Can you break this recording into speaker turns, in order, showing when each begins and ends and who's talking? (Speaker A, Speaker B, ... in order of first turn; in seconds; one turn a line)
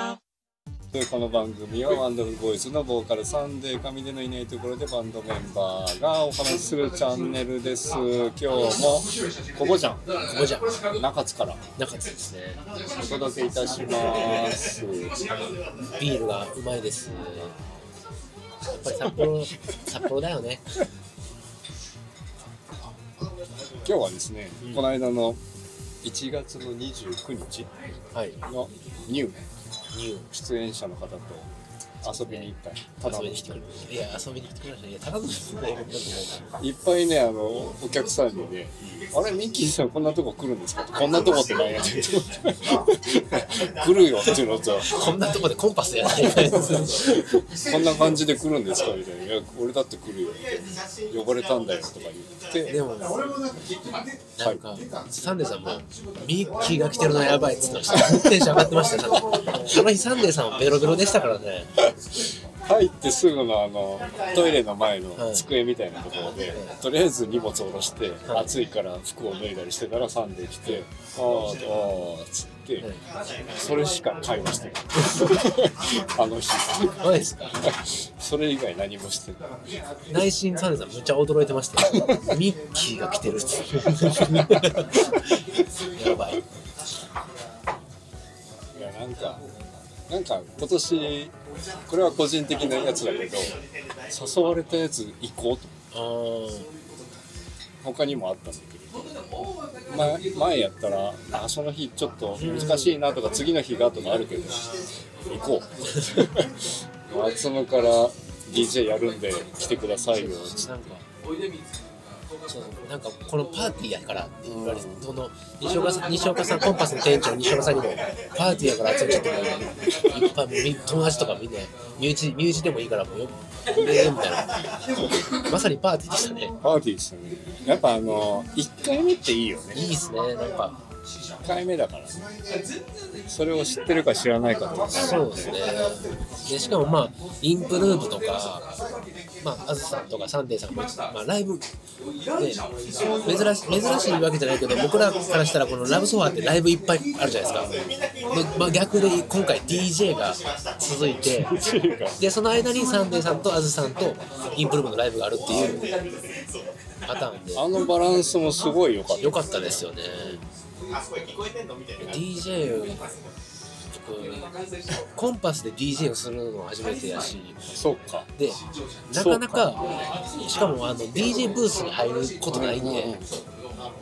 Speaker A: 0.9-10.0
Speaker B: 8.5-8.8
Speaker B: 10.3-10.7
Speaker A: 10.9-11.6
Speaker B: 11.8-12.6
Speaker A: 13.0-15.2
Speaker B: 15.9-17.5
Speaker B: 18.8-20.6
Speaker A: 23.8-25.4
Speaker A: 26.0-27.7
Speaker A: 28.5-29.4
Speaker B: 29.9-30.3
Speaker A: 30.3-31.5
Speaker A: 32.0-33.8
Speaker B: 32.0-32.5
Speaker B: 33.0-36.4
Speaker A: 36.6-44.9
Speaker B: 44.8-47.3
Speaker A: 46.2-52.7
Speaker B: 52.7-53.2
Speaker B: 54.4-61.7
Speaker A: 58.3-58.6
Speaker A: 62.6-72.8
Speaker B: 65.2-65.5
Speaker B: 68.3-68.6
Speaker A: 73.5-77.0
Speaker B: 77.0-77.5
Speaker A: 77.6-79.4
Speaker B: 80.1-85.2
Speaker A: 84.2-84.7
Speaker B: 85.9-86.4
Speaker A: 88.7-89.4
Speaker A: 90.1-91.3
Speaker A: 91.9-93.6
Speaker A: 94.1-95.7
Speaker B: 95.9-96.7
Speaker A: 97.8-99.2
Speaker A: 99.9-104.6
Speaker B: 102.4-103.0
Speaker A: 105.3-110.9
Speaker B: 110.2-111.0
Speaker B: 112.5-124.5
Speaker A: 114.4-115.0
Speaker B: 125.5-126.5
Speaker A: 126.6-129.8
Speaker B: 129.7-130.8
Speaker A: 131.4-132.2
Speaker A: 133.3-135.5
Speaker B: 135.0-138.6
Speaker B: 139.4-141.6
Speaker B: 142.4-142.6
Speaker B: 143.2-147.7
Speaker A: 147.5-147.9
Speaker B: 148.3-151.5
Speaker A: 151.3-152.2
Speaker B: 152.2-155.9
Speaker A: 155.5-155.8
Speaker B: 157.1-157.7
Speaker A: 157.5-160.4
Speaker B: 159.2-160.4
Speaker B: 162.0-163.0
Speaker B: 163.9-164.4
Speaker B: 165.1-167.6
Speaker A: 167.7-168.3
Speaker B: 169.1-173.1
Speaker A: 169.1-169.7
Speaker A: 172.5-173.3